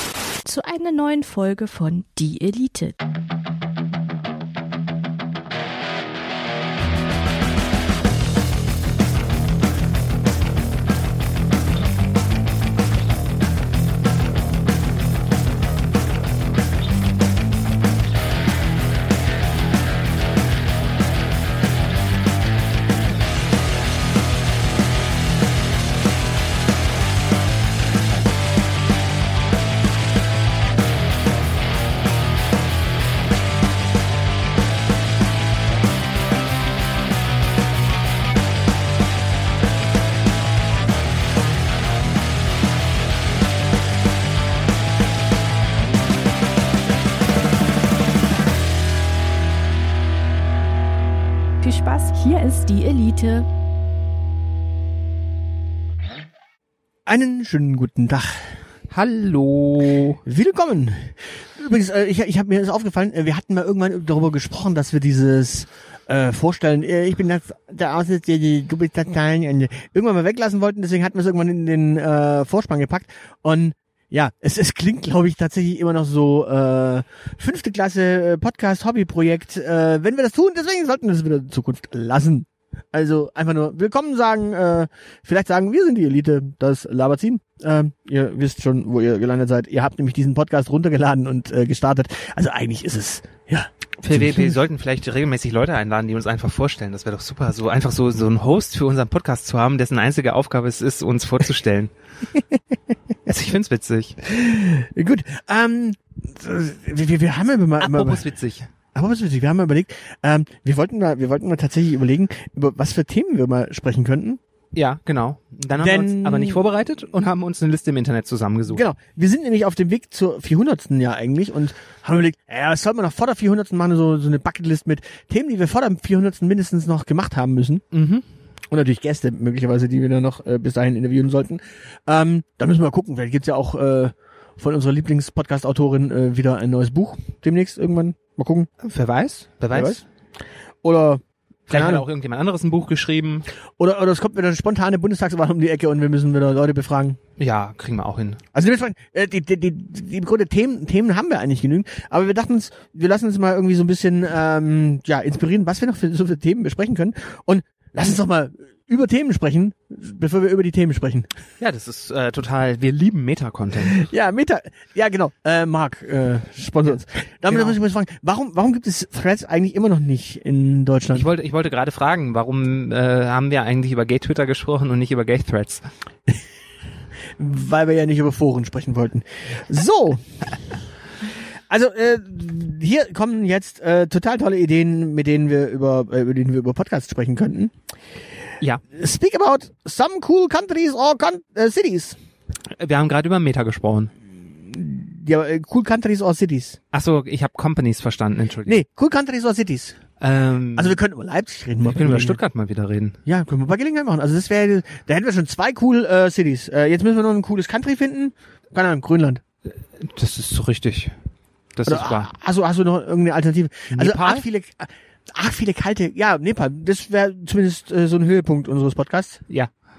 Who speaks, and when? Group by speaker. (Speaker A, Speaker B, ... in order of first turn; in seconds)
Speaker A: 0.4-3.0, 51.6-53.5
Speaker B: 57.0-58.5, 60.3-94.6, 104.2-108.2, 108.9-114.4, 115.8-116.6, 118.7-127.8, 128.7-138.7, 139.7-140.0, 140.8-142.1, 143.8-147.2, 148.5-161.3, 163.9-171.3, 177.4-180.2, 181.7-187.7, 188.9-192.2, 194.6-196.8, 198.7-200.0, 200.8-202.4, 203.2-209.4, 211.9-219.4
Speaker C: 58.9-60.2, 94.0-101.9, 103.3-104.2, 107.8-108.7, 114.7-118.8, 127.9-128.2, 138.8-140.0, 141.7-143.5, 147.4-148.4, 161.6-164.1, 167.5-167.8, 171.2-175.9, 192.8-194.1, 196.9-198.8, 200.2-201.0, 201.8-203.2, 209.7-211.1, 211.8-212.3, 213.9-214.4